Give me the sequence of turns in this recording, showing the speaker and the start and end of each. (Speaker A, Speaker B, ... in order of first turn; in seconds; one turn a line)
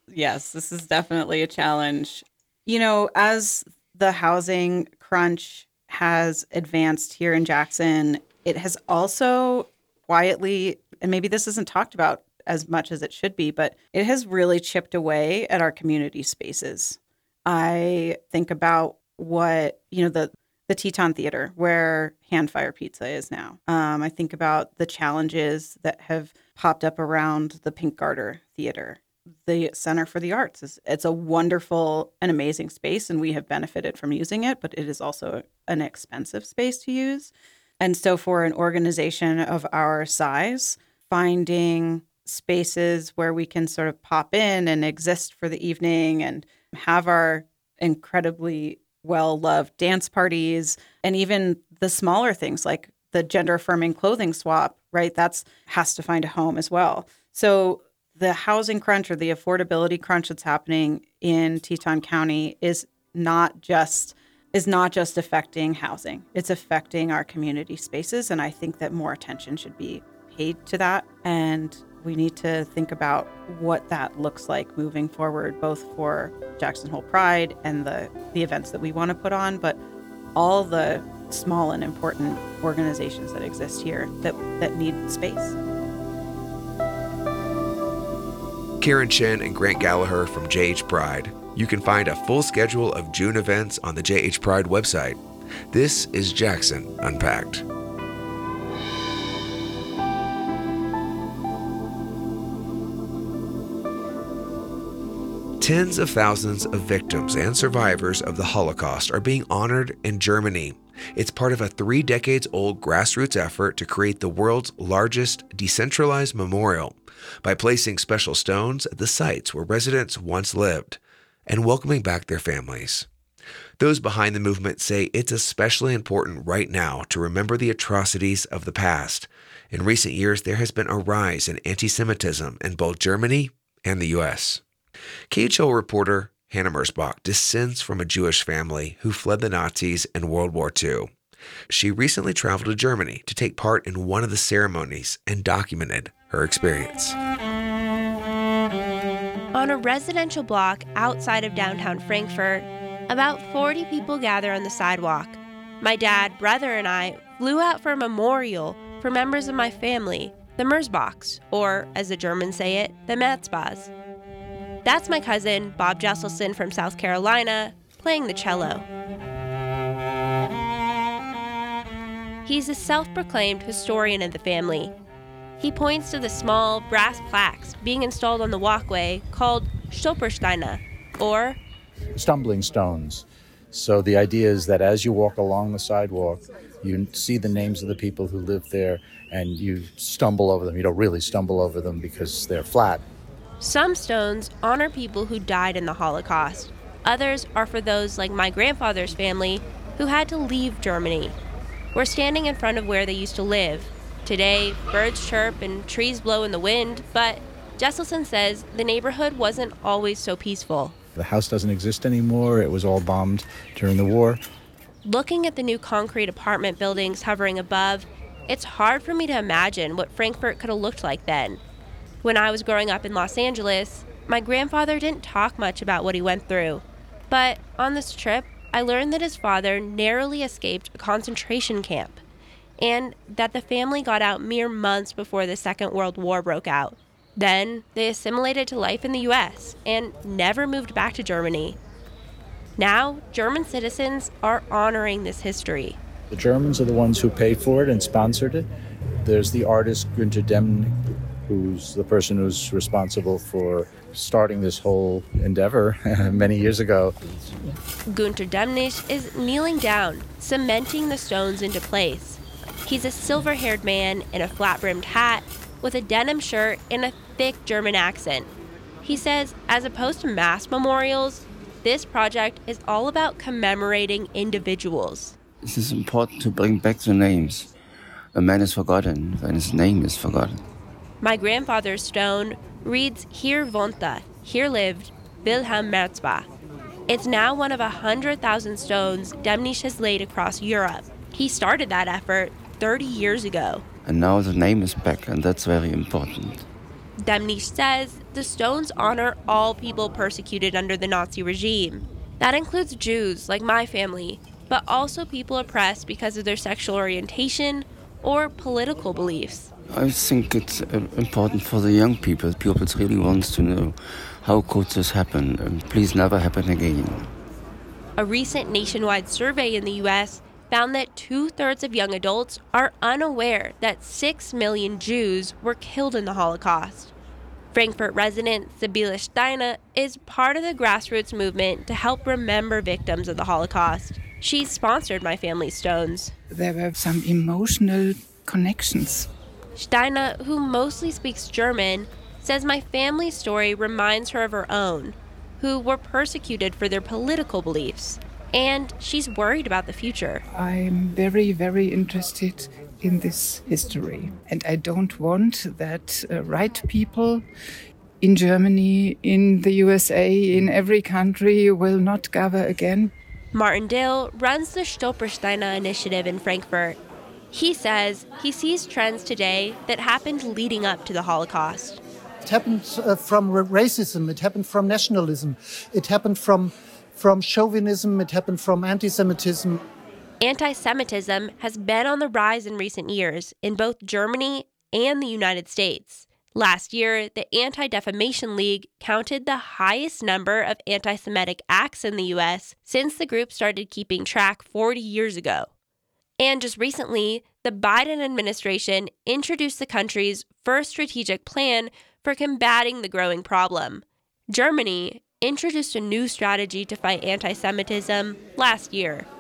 Speaker A: 0.1-79.8
Speaker A: 80.3-85.6
Speaker B: 88.8-95.2
Speaker B: 95.7-97.6
Speaker B: 105.6-123.1
Speaker B: 123.8-134.6
Speaker B: 135.3-141.1
Speaker B: 141.7-147.2
Speaker C: 149.5-163.9
Speaker C: 164.8-168.9
Speaker C: 172.4-174.9
Speaker C: 175.6-181.6
Speaker D: 182.1-193.0
Speaker C: 193.6-201.4
Speaker C: 201.9-210.9
Speaker D: 211.2-214.4
Speaker C: 215.0-221.6
Speaker C: 222.2-232.2
Speaker C: 232.8-241.8
Speaker C: 242.8-246.0
Speaker D: 246.3-248.7
Speaker D: 249.2-257.4
Speaker C: 258.1-268.5
Speaker C: 269.0-275.4
Speaker E: 275.6-277.7
Speaker E: 278.4-280.6
Speaker C: 281.2-286.5
Speaker C: 287.1-293.8
Speaker E: 294.1-296.6
Speaker C: 297.2-309.7
Speaker E: 309.9-317.3
Speaker C: 318.2-327.1
Speaker C: 327.7-336.3
Speaker F: 336.5-339.3
Speaker C: 339.8-350.4
Speaker F: 350.5-357.4
Speaker F: 358.2-363.1
Speaker C: 363.5-367.0
Speaker C: 367.5-372.0
Speaker G: 372.4-379.8
Speaker C: 380.4-395.7
Speaker C: 396.4-409.3